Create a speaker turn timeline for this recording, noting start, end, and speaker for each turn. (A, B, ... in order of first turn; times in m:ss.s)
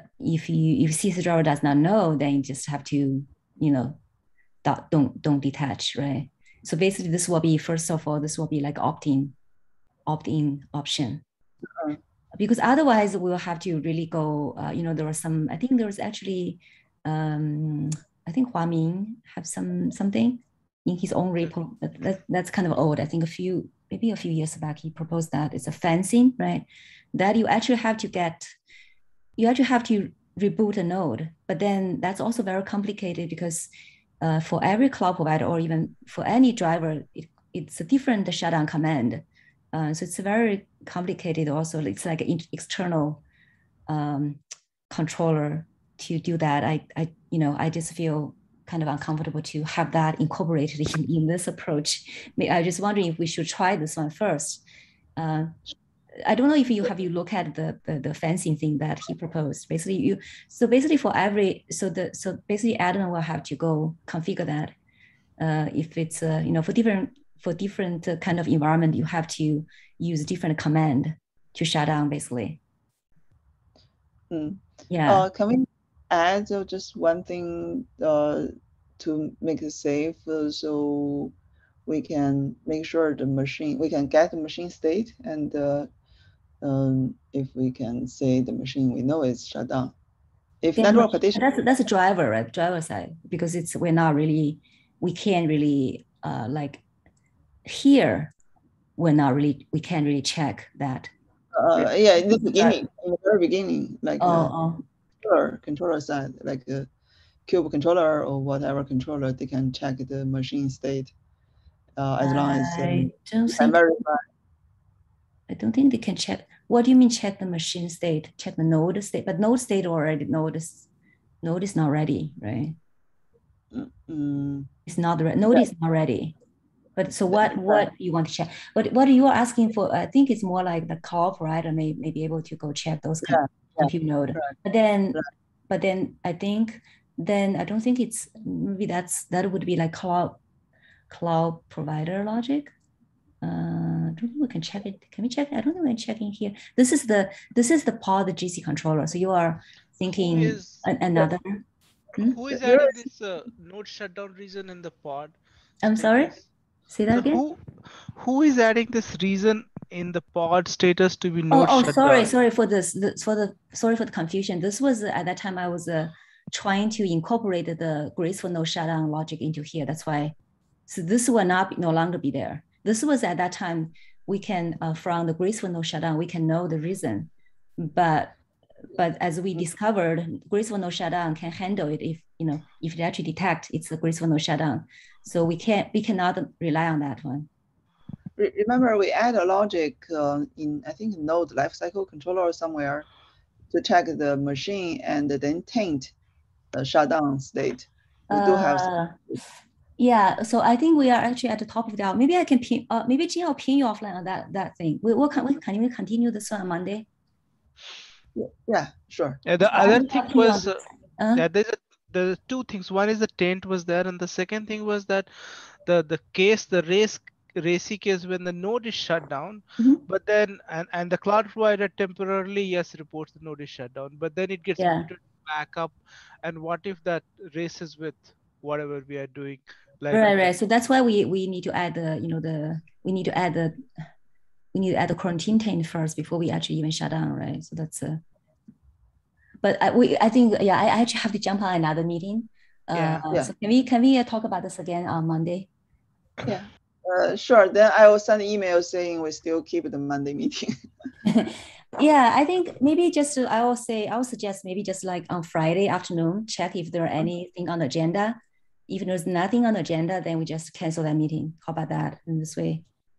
0:00.2-0:04.0 A
0:04.6-0:09.4 A
0:10.1-0:11.2 A
0:12.4-0:28.5 A
0:29.4-0:33.7 A
0:34.2-0:43.2 A
0:43.9-0:54.6 A
0:55.2-0:55.6 A
0:56.2-1:04.7 A
1:05.4-1:12.6 A
1:14.3-1:21.3 B
1:14.9-1:15.3 A
1:21.9-1:25.9 B
1:26.6-1:29.9 B
1:30.6-1:31.5 B
1:30.8-1:36.8 A
1:37.6-1:38.3 A
1:39.0-1:41.1 A
1:41.6-1:44.5 B
1:41.8-1:42.8 A
1:44.2-1:44.8 A
1:45.2-1:46.9 B
1:47.5-1:51.1 B
1:52.0-1:54.2 B
1:52.2-1:53.8 A
1:55.5-2:00.9 A
2:01.4-2:02.8 A
2:03.7-2:04.7 B
2:04.9-2:06.4 A
2:07.0-2:20.4 A
2:07.3-2:07.9 B
2:13.3-2:14.5 B
2:21.1-2:22.7 A
2:23.4-2:31.6 A
2:30.1-2:30.9 C
2:32.2-2:35.4 C
2:35.8-2:36.3 A
2:35.9-2:36.4 C
2:36.9-2:37.4 A
2:37.1-2:42.4 C
2:41.5-2:50.3 A
2:50.9-2:58.4 A
2:58.9-3:07.5 A
3:08.4-3:13.1 B
3:13.7-3:16.1 B
3:16.7-3:18.9 B
3:18.3-3:19.4 A
3:20.0-3:27.1 A
3:28.4-3:29.4 B
3:29.4-3:30.8 C
3:29.7-3:31.5 A
3:31.4-3:50.5 C
3:44.8-3:45.1 A
3:50.1-3:53.8 A
3:54.7-3:58.2 A
3:59.6-4:05.7 A
4:02.9-4:03.2 C
4:06.4-4:10.8 B
4:11.3-4:22.8 A